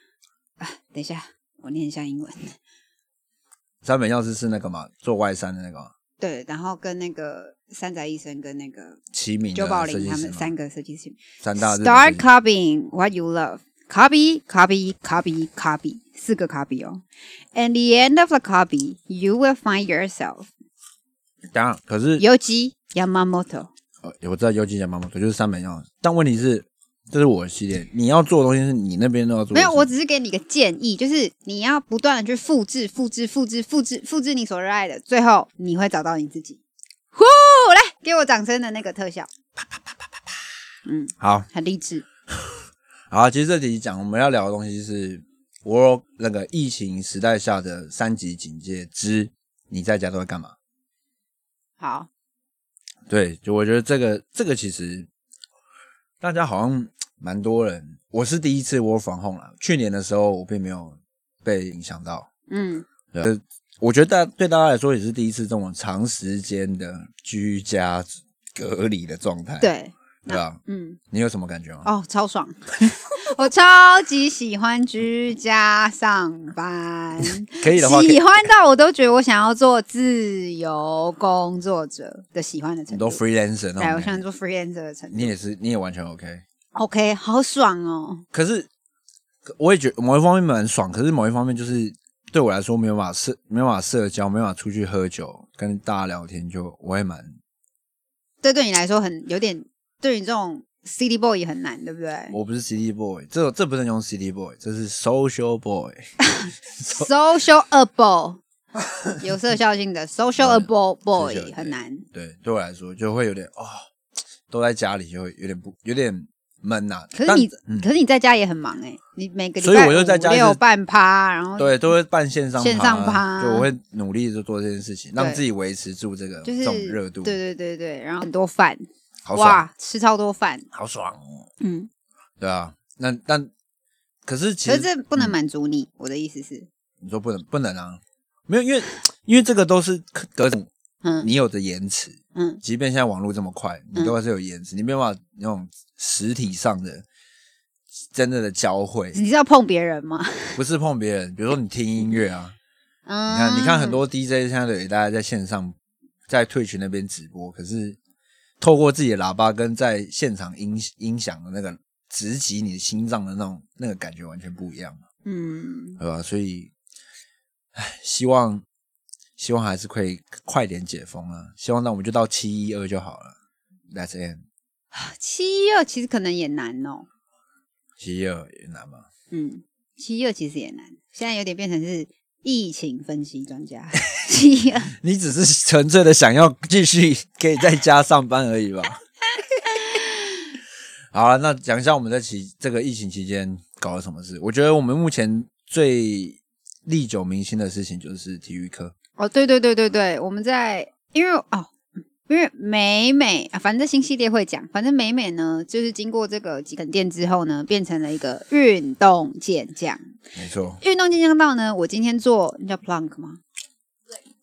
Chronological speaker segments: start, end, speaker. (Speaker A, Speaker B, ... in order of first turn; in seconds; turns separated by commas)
Speaker A: 0.6-2.5, Speaker B: 3.8-5.9, Speaker A: 6.2-9.0, Speaker B: 9.1-10.5, Speaker A: 9.5-17.0, Speaker B: 11.4-12.2, Speaker A: 17.5-20.5, Speaker B: 21.5-22.2, Speaker A: 22.2-23.7, Speaker B: 24.0-29.9, Speaker A: 29.5-36.6, Speaker A: 37.1-39.3, Speaker A: 40.9-42.0, Speaker B: 41.2-41.5, Speaker B: 42.4-50.5, Speaker A: 51.8-52.1, Speaker B: 53.1-55.1, Speaker B: 56.2-62.3, Speaker A: 62.5-62.9, Speaker B: 63.1-69.7, Speaker A: 69.6-71.0, Speaker B: 70.3-70.6, Speaker B: 71.1-71.9, Speaker A: 71.8-83.2, Speaker B: 77.2-78.5, Speaker B: 82.9-84.2, Speaker A: 83.8-85.3, Speaker B: 85.1-86.4, Speaker A: 86.7-88.2, Speaker B: 88.3-88.7, Speaker B: 89.5-97.3, Speaker A: 98.4-102.3, Speaker B: 102.3-106.1, Speaker A: 106.3-108.4, Speaker B: 106.7-107.1, Speaker A: 109.2-112.0, Speaker B: 110.4-113.8, Speaker B: 114.5-117.9, Speaker A: 117.1-121.9, Speaker B: 119.6-120.6, Speaker B: 121.6-127.4, Speaker A: 122.6-123.7, Speaker A: 125.2-125.4, Speaker A: 126.4-130.7, Speaker B: 129.2-129.6, Speaker B: 130.7-131.4, Speaker A: 131.6-131.9, Speaker B: 132.4-133.5, Speaker B: 134.2-135.3, Speaker A: 134.7-136.7, Speaker B: 137.0-140.7, Speaker A: 141.0-141.3, Speaker B: 141.2-147.0, Speaker A: 142.3-142.6, Speaker B: 148.1-149.2, Speaker A: 149.1-150.6, Speaker B: 150.6-152.5, Speaker A: 153.1-154.0, Speaker B: 153.3-155.7, Speaker B: 156.3-158.0, Speaker B: 158.6-165.0, Speaker A: 165.2-166.0, Speaker B: 166.0-166.7, Speaker B: 167.7-168.6, Speaker B: 169.4-173.3, Speaker B: 173.9-174.4, Speaker A: 174.9-177.1, Speaker B: 178.0-179.1, Speaker A: 179.3-184.9, Speaker B: 184.9-189.0, Speaker A: 189.7-190.1, Speaker B: 191.1-198.9, Speaker A: 199.2-201.7, Speaker A: 202.3-210.0, Speaker B: 210.3-210.8, Speaker A: 210.8-213.4